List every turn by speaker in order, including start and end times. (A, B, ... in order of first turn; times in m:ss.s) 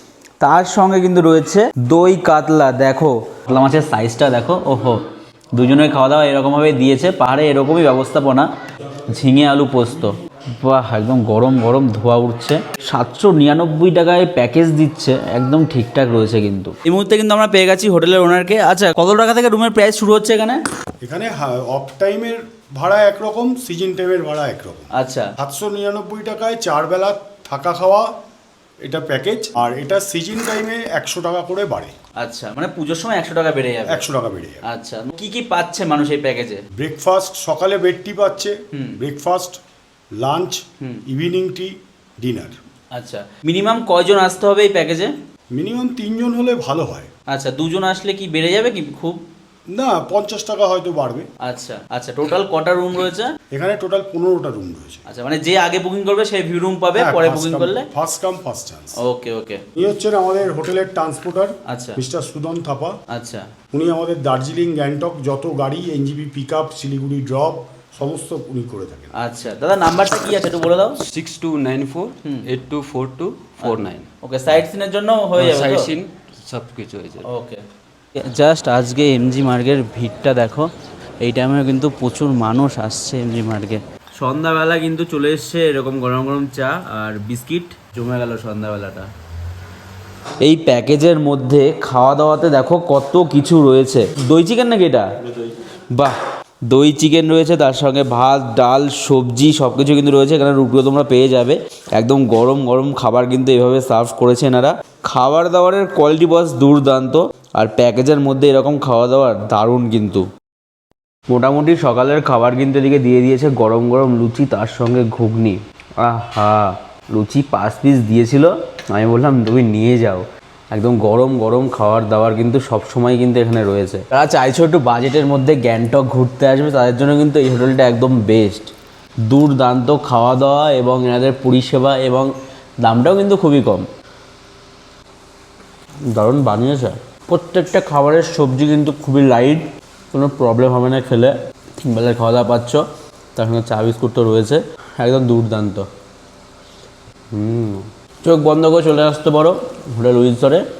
0:00.4-0:05.0 A
0:05.5-0:08.5 A
0:09.1-0:20.6 A
0:21.0-0:28.1 B
0:24.9-0:25.3 A
0:28.8-0:31.9 B
0:32.2-0:34.0 A
0:33.9-0:34.6 B
0:34.6-0:36.6 A
0:36.8-0:39.6 B
0:38.7-0:39.0 A
0:40.2-0:42.6 B
0:42.9-0:45.1 A
0:45.5-0:47.1 B
0:47.3-0:49.2 A
0:49.7-0:51.3 B
0:51.4-0:53.3 A
0:53.5-0:55.0 B
0:55.1-0:57.9 A
0:56.9-0:59.0 B
0:59.0-0:59.6 A
0:59.8-1:03.0 B
1:01.7-1:02.0 A
1:03.1-1:03.5 A
1:03.7-1:09.1 B
1:09.2-1:11.0 A
1:11.0-1:14.0 C
1:12.2-1:12.5 A
1:13.6-1:15.9 A
1:15.4-1:17.2 C
1:17.2-1:17.6 A
1:18.2-1:29.1 A
1:30.4-1:36.2 A
1:36.7-1:50.3 A
1:51.3-2:08.7 A
2:09.3-2:12.3 A
2:12.8-2:13.8 A
2:16.1-2:22.8 A
2:23.4-2:25.9 A
2:27.3-2:30.6 A